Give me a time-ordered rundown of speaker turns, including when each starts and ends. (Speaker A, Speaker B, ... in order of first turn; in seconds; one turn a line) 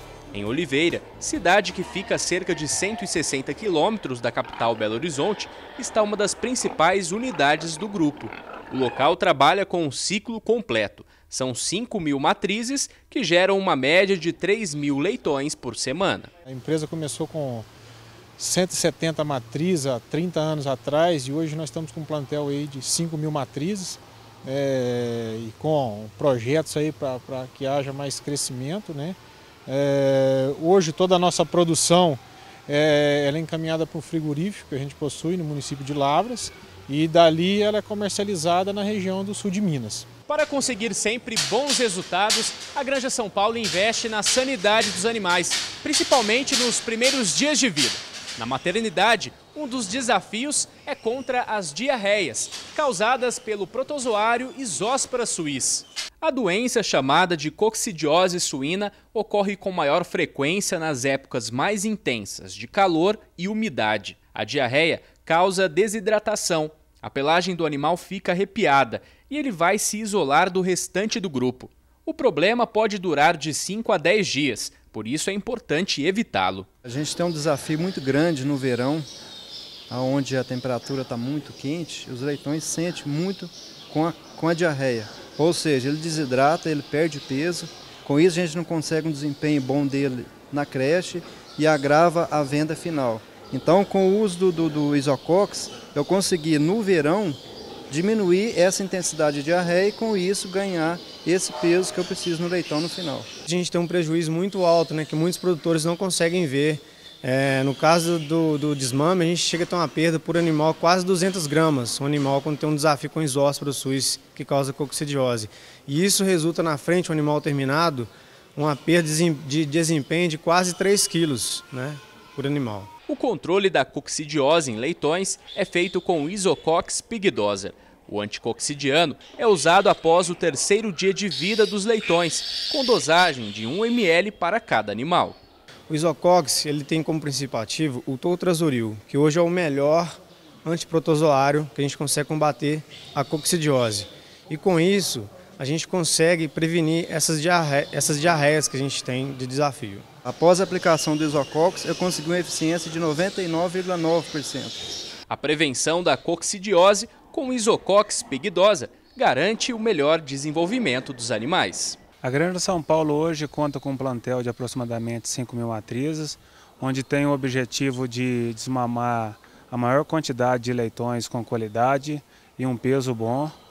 Speaker A: 0.3-16.3
Speaker B: 16.4-17.7
Speaker B: 18.4-40.1
Speaker A: 40.3-76.7
Speaker C: 76.8-79.1
Speaker C: 79.9-97.4
Speaker C: 97.9-103.3
Speaker D: 103.5-122.9
Speaker A: 123.1-135.4
Speaker D: 135.9-150.0
Speaker C: 150.2-154.8
Speaker A: 155.3-162.0
Speaker E: 162.2-173.6